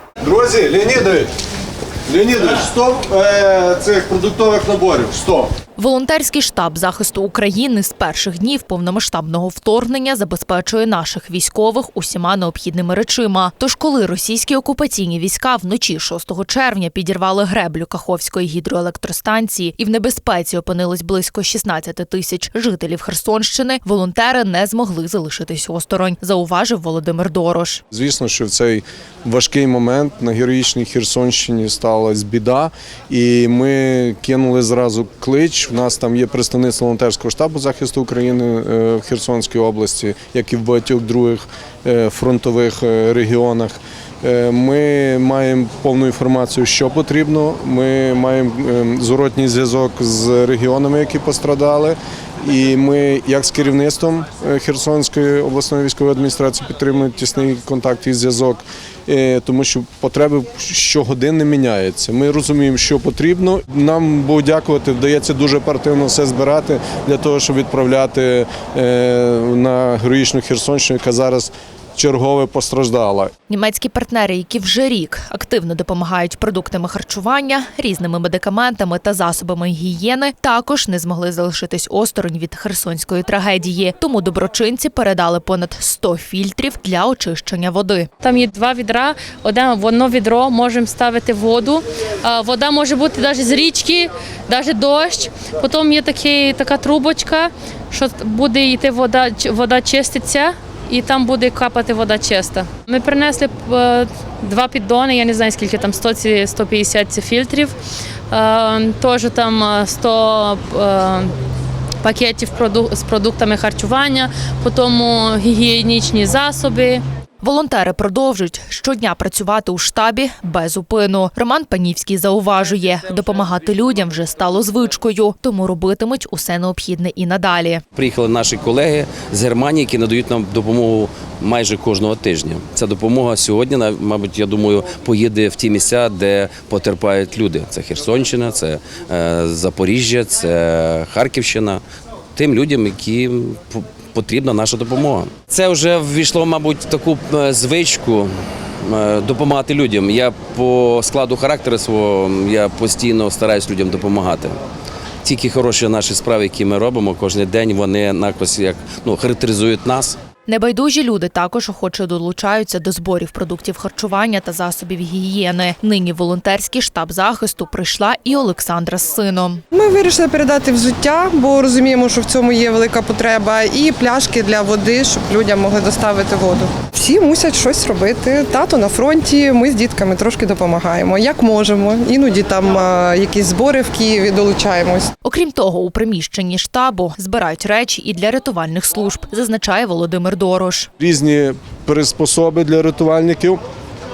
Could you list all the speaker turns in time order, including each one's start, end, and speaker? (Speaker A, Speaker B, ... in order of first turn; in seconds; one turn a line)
Speaker A: 0.2-1.3
Speaker A: 2.1-5.5
Speaker B: 5.8-27.8
Speaker A: 27.9-73.3
Speaker B: 73.5-88.1
Speaker C: 88.2-107.7
Speaker C: 108.3-111.3
Speaker C: 112.0-117.0
Speaker B: 117.4-127.8
Speaker D: 127.9-141.8
Speaker D: 142.3-148.3
Speaker D: 148.8-154.6
Speaker D: 155.2-160.2
Speaker B: 160.4-169.6
Speaker E: 169.7-185.1
Speaker B: 185.2-190.9
Speaker A: 191.0-193.6